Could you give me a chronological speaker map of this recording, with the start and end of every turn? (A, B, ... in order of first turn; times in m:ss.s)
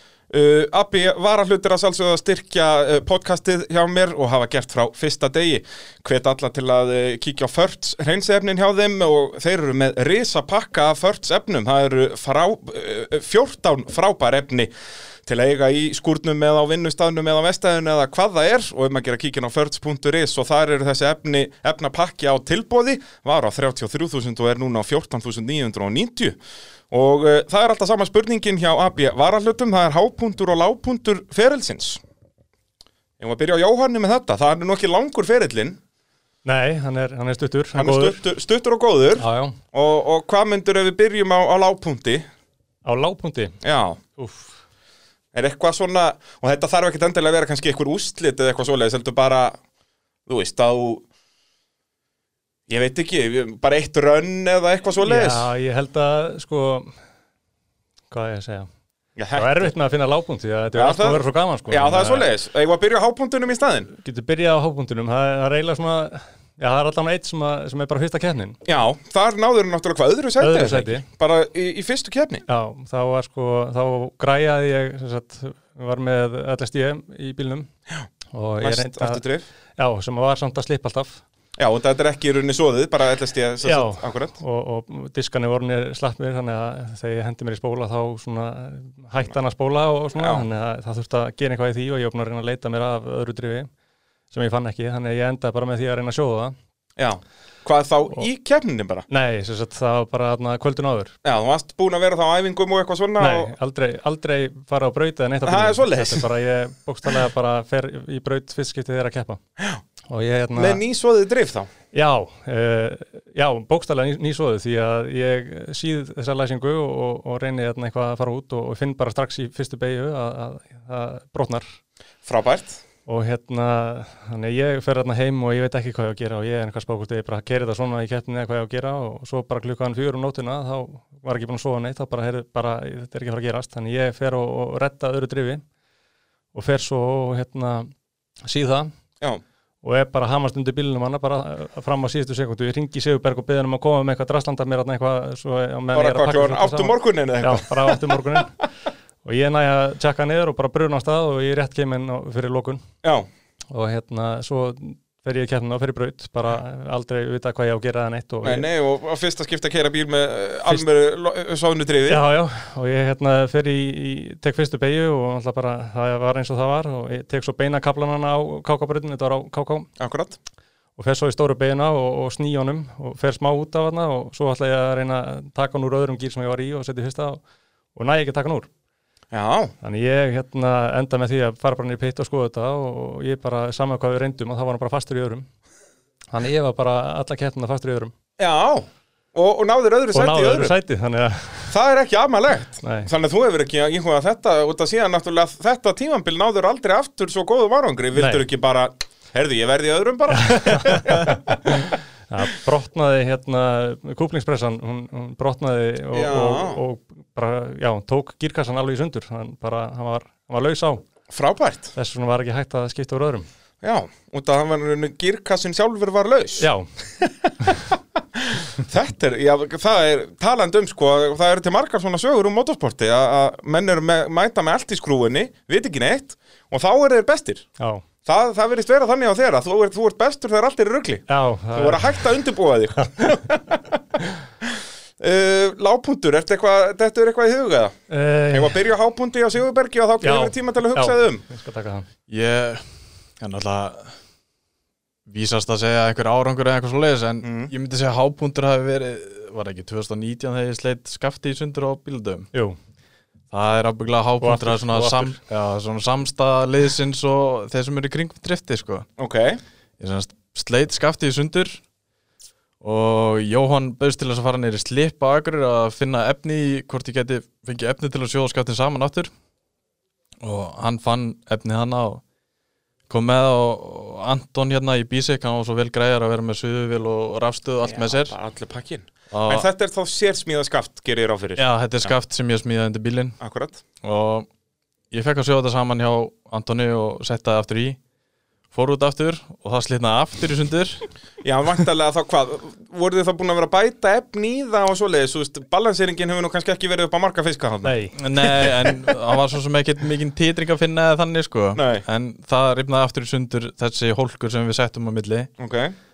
0:00.3-0:14.7 A
0:15.2-0:26.4 A
0:26.9-0:32.0 A
0:33.2-0:35.8 A
0:36.4-0:38.2 B
0:37.8-0:42.2 A
0:39.2-0:39.6 B
0:42.8-0:43.5 B
0:43.6-0:44.0 A
0:44.2-0:44.5 B
0:45.3-0:49.6 A
0:50.3-0:51.0 A
0:52.7-0:55.5 A
0:55.0-0:56.9 B
0:58.1-0:58.7 B
0:59.2-0:59.7 A
0:59.3-1:02.3 B
1:00.7-1:03.9 A
1:04.0-1:08.6 B
1:08.6-1:12.4 A
1:10.4-1:11.0 B
1:12.5-1:17.7 B
1:18.3-1:19.2 B
1:18.6-1:19.4 A
1:19.8-1:21.2 B
1:21.6-1:24.4 A
1:23.6-1:33.7 B
1:30.2-1:30.4 A
1:34.3-1:36.5 B
1:37.0-1:39.0 A
1:39.1-1:41.1 B
1:41.2-1:43.5 A
1:43.2-1:49.4 B
1:45.4-1:46.2 A
1:50.1-1:50.8 B
1:50.6-1:51.7 A
1:51.9-2:01.6 B
2:02.2-2:02.8 A
2:03.1-2:15.6 B
2:16.5-2:17.9 B
2:18.5-2:18.9 B
2:19.8-2:28.5 B
2:25.9-2:28.2 A
2:29.2-2:32.8 B
2:33.0-2:33.3 A
2:33.7-2:38.6 B
2:38.4-2:42.2 A
2:42.1-2:49.9 B
2:50.0-2:50.4 A
2:51.0-2:57.4 B
2:57.9-2:58.7 B
2:59.3-2:59.7 A
2:59.8-3:05.5 B
3:06.3-3:08.1 B
3:08.4-3:10.7 A
3:10.1-3:11.7 B
3:11.7-3:21.7 A
3:12.8-3:13.1 B
3:18.2-3:18.4 B
3:20.3-3:31.0 B
3:26.1-3:26.8 A
3:31.3-3:31.9 A
3:31.9-3:33.5 B
3:33.8-3:36.7 A
3:36.6-3:36.9 B
3:37.2-3:47.6 A
3:47.8-3:48.0 B
3:48.2-3:54.0 A
3:51.3-3:52.3 B
3:55.2-3:58.0 A
3:58.1-3:58.8 B
3:58.5-4:01.4 A
4:00.2-4:02.1 B
4:02.3-4:02.8 C
4:03.4-4:04.1 C
4:05.2-4:12.5 C
4:07.4-4:07.7 A
4:13.5-4:19.0 C
4:14.4-4:15.4 B
4:19.2-4:19.6 A
4:20.0-4:21.8 C
4:22.8-4:29.3 C
4:30.4-4:32.2 C
4:33.1-4:38.3 C
4:37.8-4:42.1 A
4:39.3-4:39.7 C
4:41.6-4:43.4 C
4:43.4-4:43.8 A
4:44.0-4:44.5 C
4:45.1-4:48.0 C
4:48.7-4:51.1 C
4:51.4-4:58.8 A
4:57.8-4:58.1 B
4:58.1-5:05.5 C
5:01.8-5:02.0 A
5:05.6-5:05.9 A